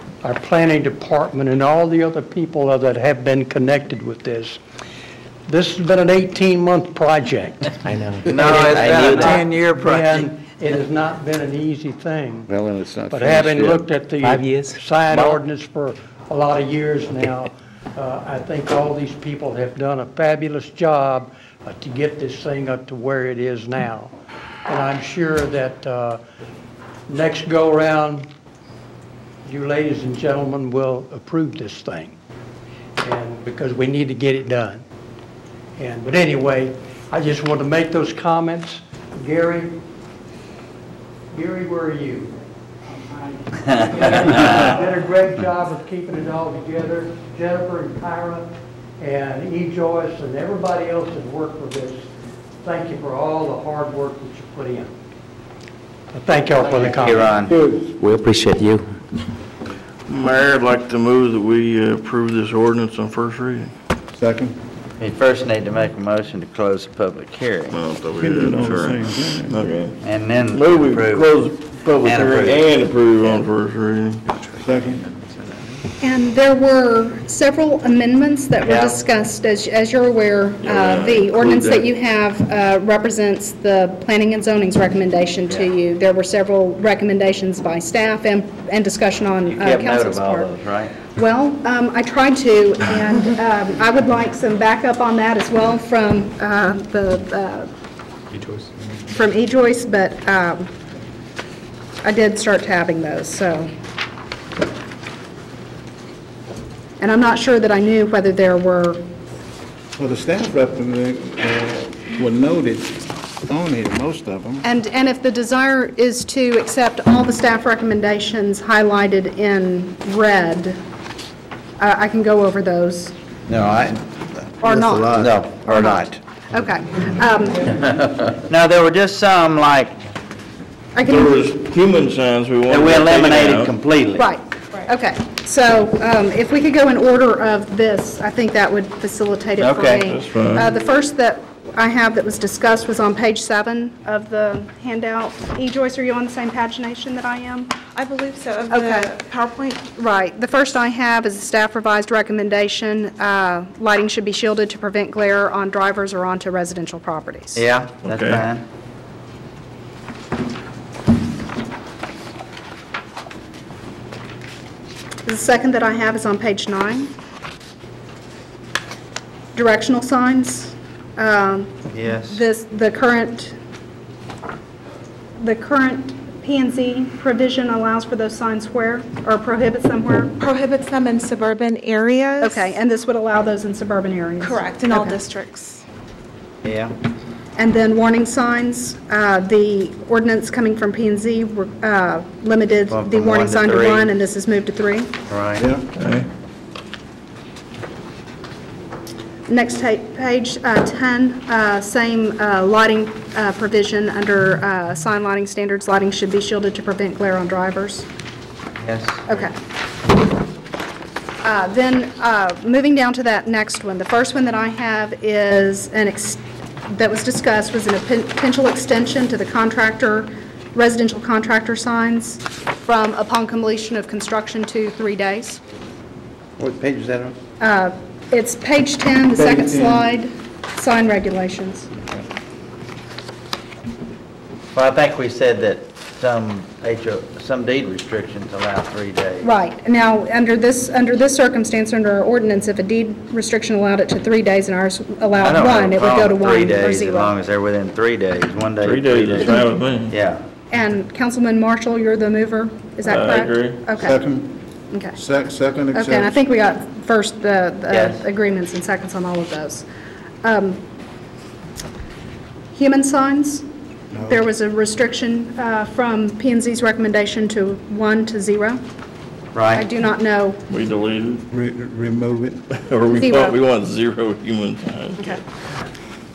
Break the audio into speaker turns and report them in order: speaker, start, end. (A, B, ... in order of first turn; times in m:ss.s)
0:00.2-0:04.6 A
0:05.5-0:12.5 A
0:07.8-0:09.8 B
0:08.2-0:09.4 C
0:12.5-0:13.8 D
0:13.1-0:24.1 A
0:14.2-0:14.7 B
0:24.7-0:26.2 A
0:27.1-0:28.3 A
0:29.4-0:32.1 A
0:33.0-0:34.8 A
0:35.8-0:39.8 A
0:41.3-0:42.3 A
0:42.9-0:48.5 A
0:49.0-0:52.1 A
0:52.6-0:54.9 A
0:56.1-0:57.4 A
0:56.6-0:57.5 C
0:57.6-0:57.9 D
0:58.1-0:58.8 B
1:00.1-1:03.7 E
1:04.1-1:04.6 D
1:05.0-1:07.8 C
1:07.7-1:10.0 E
1:08.2-1:09.6 D
1:10.0-1:11.4 C
1:10.5-1:14.2 E
1:12.0-1:12.7 C
1:14.6-1:15.1 D
1:16.0-1:37.7 F
1:18.6-1:19.0 C
1:20.6-1:21.9 E
1:29.5-1:31.0 C
1:39.1-1:40.7 F
1:42.0-1:43.7 F
1:47.0-1:49.0 F
1:50.0-1:54.6 D
1:54.6-2:00.8 F
2:01.8-2:03.1 F
2:03.5-2:04.1 C
2:04.6-2:07.7 F
2:04.7-2:05.4 D
2:05.1-2:06.1 C
2:07.6-2:10.0 C
2:10.9-2:11.5 F
2:11.1-2:13.7 E
2:12.7-2:14.3 C
2:14.1-2:27.8 F
2:19.6-2:20.1 C
2:20.0-2:20.7 E
2:27.9-2:29.9 G
2:28.7-2:29.2 F
2:29.9-2:37.6 F
2:37.6-2:38.6 C
2:38.0-2:38.4 E
2:45.2-2:47.1 F
2:49.5-2:53.6 F
2:51.9-2:52.4 C
2:55.4-3:00.4 F
3:00.4-3:02.7 G
3:02.4-3:05.2 F
3:04.4-3:05.8 G
3:06.6-3:06.9 C
3:07.6-3:15.2 F
3:12.9-3:14.1 C
3:15.3-3:15.6 C
3:15.6-3:15.8 D
3:16.0-3:16.3 E
3:19.5-3:28.1 F
3:28.8-3:29.4 C
3:29.2-3:29.5 F
3:31.4-3:45.6 F
3:46.6-3:47.4 C
3:47.6-3:51.9 F
3:49.4-3:50.0 D
3:54.7-3:59.5 C
3:59.4-4:07.3 F
4:05.4-4:09.5 C
4:08.8-4:10.1 E
4:09.4-4:09.8 F
4:10.1-4:10.4 C
4:10.7-4:14.2 F
4:13.1-4:13.8 E
4:14.0-4:14.5 D
4:14.9-4:15.2 F
4:15.2-4:16.4 D
4:15.9-4:19.9 F
4:17.9-4:18.2 C
4:20.4-4:20.8 F
4:22.7-4:28.8 F
4:24.1-4:24.4 D
4:29.5-4:29.8 C
4:29.7-4:30.6 F
4:30.7-4:31.4 E
4:31.5-4:32.6 D
4:32.9-4:35.4 E
4:33.1-4:33.6 F